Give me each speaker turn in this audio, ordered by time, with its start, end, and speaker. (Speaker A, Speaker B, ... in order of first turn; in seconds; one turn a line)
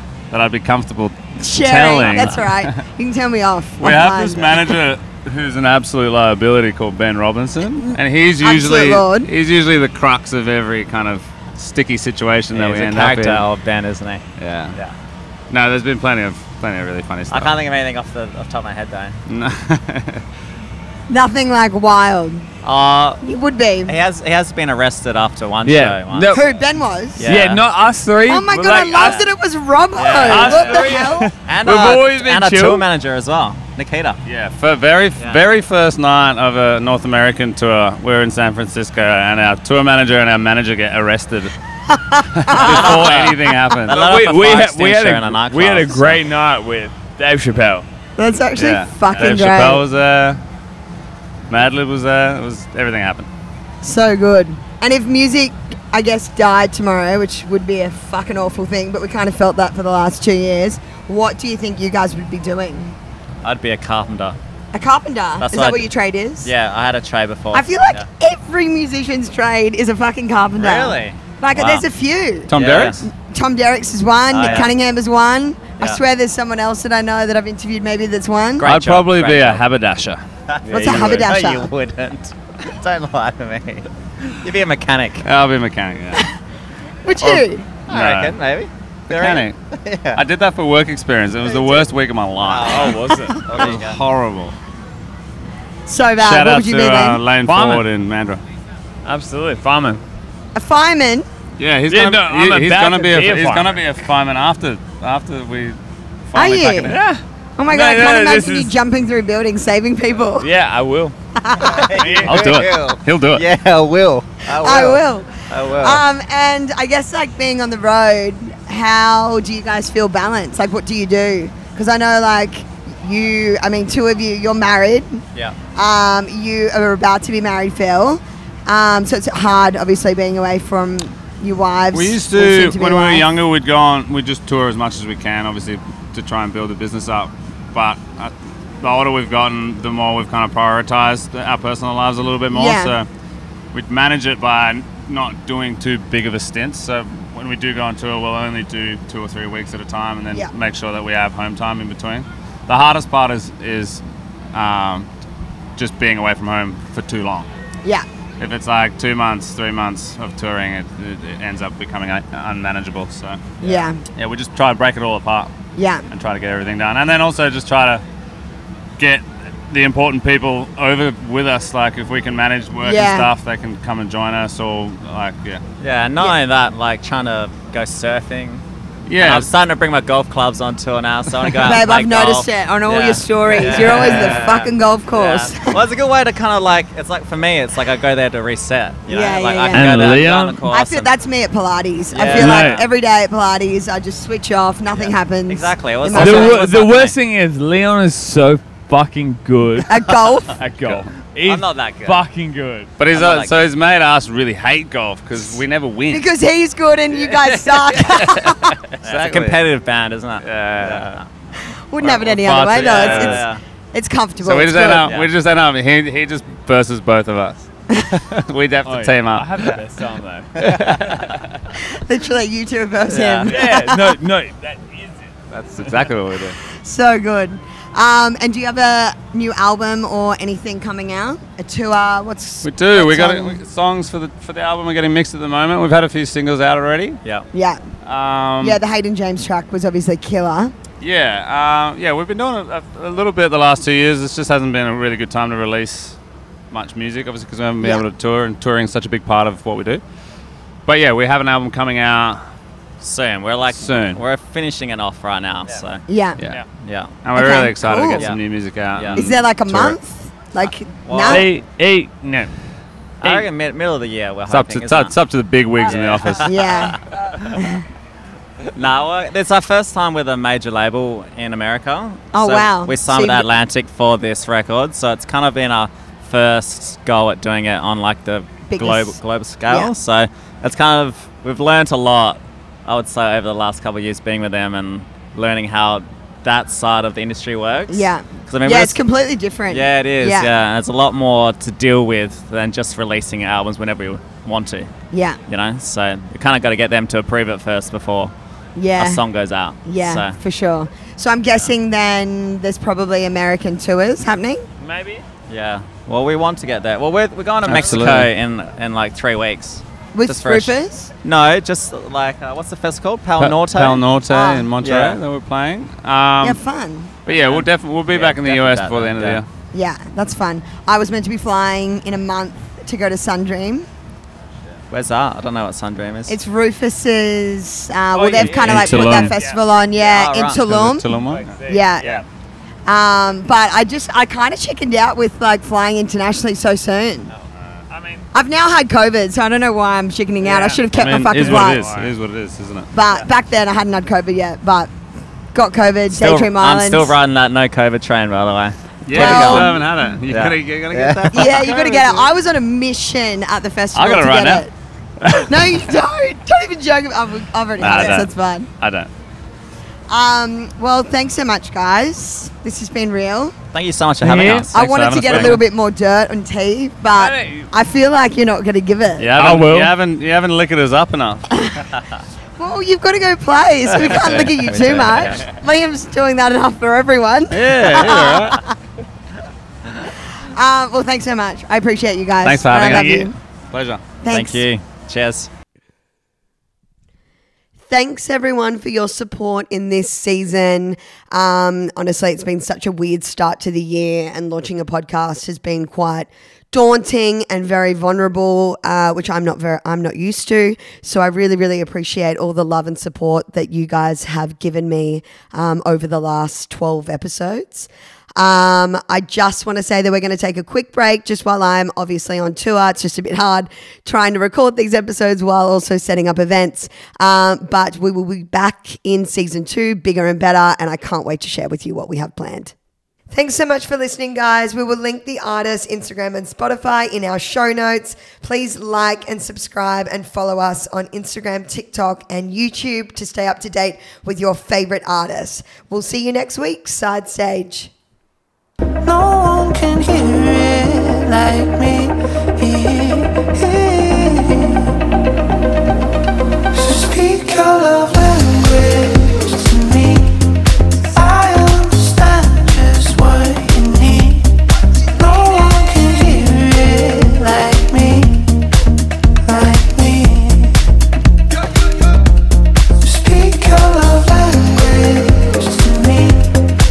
Speaker A: 0.3-2.7
Speaker B: 1.4-4.7
Speaker C: 2.0-2.4
Speaker A: 3.8-13.5
Speaker B: 7.8-9.3
Speaker C: 12.5-14.9
Speaker A: 14.4-14.8
Speaker A: 15.5-17.5
Speaker C: 17.3-19.1
Speaker A: 19.3-20.2
Speaker B: 21.1-22.5
Speaker C: 22.6-23.2
Speaker B: 23.2-23.9
Speaker C: 23.9-26.4
Speaker D: 25.6-26.5
Speaker B: 26.3-27.3
Speaker C: 27.2-27.6
Speaker D: 27.2-29.2
Speaker B: 28.3-31.3
Speaker C: 28.9-29.3
Speaker C: 29.9-34.2
Speaker D: 30.3-32.8
Speaker A: 30.5-30.9
Speaker A: 34.2-41.5
Speaker B: 42.1-42.6
Speaker A: 42.3-44.0
Speaker D: 42.5-43.3
Speaker C: 42.6-46.3
Speaker D: 43.9-47.9
Speaker B: 48.2-49.8
Speaker A: 48.5-50.4
Speaker A: 51.5-53.3
Speaker B: 53.8-63.0
Speaker C: 63.4-64.4
Speaker B: 64.7-66.5
Speaker C: 65.4-65.8
Speaker C: 66.4-68.1
Speaker B: 67.5-72.5
Speaker C: 70.6-71.8
Speaker A: 72.5-73.0
Speaker C: 72.5-73.0
Speaker B: 73.0-78.7
Speaker C: 74.3-74.7
Speaker C: 78.6-79.6
Speaker A: 78.6-81.3
Speaker C: 80.5-85.2
Speaker B: 80.7-81.7
Speaker A: 85.2-86.2
Speaker B: 87.0-87.7
Speaker A: 87.2-88.4
Speaker C: 87.9-90.2
Speaker A: 89.1-89.6
Speaker A: 90.1-94.5
Speaker B: 91.5-91.9
Speaker C: 92.4-94.0
Speaker D: 92.7-93.5
Speaker B: 95.9-97.2
Speaker A: 96.2-98.4
Speaker D: 97.4-97.9
Speaker D: 99.0-100.0
Speaker B: 100.5-101.2
Speaker A: 101.6-107.0
Speaker D: 101.9-103.8
Speaker B: 106.3-106.9
Speaker D: 106.9-108.8
Speaker B: 107.6-110.5
Speaker D: 110.4-111.2
Speaker B: 111.4-111.9
Speaker C: 111.6-116.0
Speaker D: 111.9-112.6
Speaker A: 112.2-113.4
Speaker B: 114.5-125.2
Speaker B: 125.7-133.3
Speaker A: 131.9-143.1
Speaker B: 142.5-143.0
Speaker A: 143.7-154.0
Speaker A: 154.5-155.1
Speaker A: 155.8-157.5
Speaker A: 158.4-163.6
Speaker B: 163.6-164.0
Speaker A: 164.2-165.5
Speaker B: 165.8-166.0
Speaker A: 166.1-168.0
Speaker A: 169.0-175.6
Speaker B: 172.8-173.3
Speaker C: 175.8-178.6
Speaker A: 179.1-179.5
Speaker C: 179.2-191.1
Speaker B: 181.6-185.8
Speaker B: 189.1-189.9
Speaker D: 189.7-190.6
Speaker B: 190.7-196.6
Speaker C: 192.1-192.9
Speaker D: 192.3-192.8
Speaker C: 194.9-197.2
Speaker D: 196.1-200.0
Speaker B: 199.9-200.5
Speaker D: 200.5-202.9
Speaker A: 200.8-201.1
Speaker C: 201.4-202.2
Speaker A: 203.0-206.2
Speaker C: 203.1-203.6
Speaker B: 206.1-208.8
Speaker C: 207.1-208.5
Speaker A: 207.8-209.7
Speaker C: 209.0-211.2
Speaker A: 210.4-211.2
Speaker B: 211.9-215.1
Speaker A: 212.0-213.5
Speaker C: 212.7-213.6
Speaker A: 214.4-219.8
Speaker C: 215.0-215.3
Speaker D: 218.8-221.4
Speaker A: 220.6-221.2
Speaker C: 220.6-220.9
Speaker B: 221.8-224.1
Speaker C: 223.1-223.5
Speaker D: 223.4-225.3
Speaker A: 225.5-226.6
Speaker D: 225.8-226.1
Speaker B: 226.8-233.6
Speaker A: 232.6-237.2
Speaker B: 237.5-237.8
Speaker A: 238.0-238.8
Speaker B: 238.6-240.7
Speaker A: 241.0-246.2
Speaker A: 246.7-250.0
Speaker A: 250.9-252.4
Speaker C: 253.0-256.0
Speaker A: 253.7-254.2
Speaker B: 256.1-256.4
Speaker C: 256.8-257.1
Speaker A: 257.2-260.0
Speaker B: 257.3-258.3
Speaker C: 258.9-259.2
Speaker B: 259.1-261.5
Speaker C: 260.7-261.5
Speaker D: 261.2-262.5
Speaker C: 263.2-265.1
Speaker A: 264.5-266.4
Speaker C: 265.9-267.6
Speaker B: 266.4-267.0
Speaker C: 268.8-289.0
Speaker B: 272.3-273.5
Speaker B: 278.7-279.9
Speaker B: 287.9-290.5
Speaker C: 289.7-294.9
Speaker B: 295.1-295.4
Speaker C: 295.5-298.3
Speaker B: 298.8-299.2
Speaker C: 299.0-300.4
Speaker B: 299.8-304.6
Speaker D: 304.8-305.2
Speaker C: 305.5-314.0
Speaker A: 307.7-308.3
Speaker B: 310.1-311.1
Speaker A: 313.4-316.6
Speaker B: 314.3-314.7
Speaker C: 314.8-315.2
Speaker B: 316.4-317.1
Speaker A: 317.2-319.5
Speaker C: 317.3-319.4
Speaker B: 319.7-323.9
Speaker C: 324.9-326.4
Speaker B: 326.3-331.1
Speaker D: 328.1-330.4
Speaker A: 328.5-329.4
Speaker C: 330.1-330.6
Speaker A: 330.5-332.2
Speaker D: 331.1-332.2
Speaker B: 331.6-332.1
Speaker B: 332.9-337.3
Speaker D: 337.9-338.2
Speaker B: 338.3-341.9
Speaker D: 340.4-342.1
Speaker A: 340.9-342.9
Speaker B: 342.9-344.9
Speaker B: 345.5-347.2
Speaker C: 346.1-349.8
Speaker A: 349.1-351.7
Speaker B: 349.1-349.8
Speaker C: 350.3-352.2
Speaker B: 351.3-354.7
Speaker A: 353.9-354.7
Speaker A: 355.2-355.7
Speaker B: 355.5-358.7
Speaker A: 357.8-359.1
Speaker B: 360.1-363.5
Speaker C: 363.7-364.8
Speaker D: 364.2-364.7
Speaker A: 364.7-365.6
Speaker B: 364.7-369.3
Speaker C: 365.3-365.6
Speaker D: 367.1-367.7
Speaker A: 369.2-371.6
Speaker D: 369.3-369.9
Speaker B: 371.5-371.8
Speaker B: 372.6-378.7
Speaker A: 374.0-374.8
Speaker C: 374.0-375.4
Speaker A: 377.5-378.7
Speaker B: 380.5-383.3
Speaker A: 382.4-384.0
Speaker D: 382.7-383.3
Speaker B: 384.2-384.6
Speaker C: 384.3-385.5
Speaker B: 387.9-422.7
Speaker B: 423.3-437.9
Speaker E: 439.0-444.9
Speaker E: 446.7-458.6
Speaker E: 459.4-460.8
Speaker E: 463.0-466.6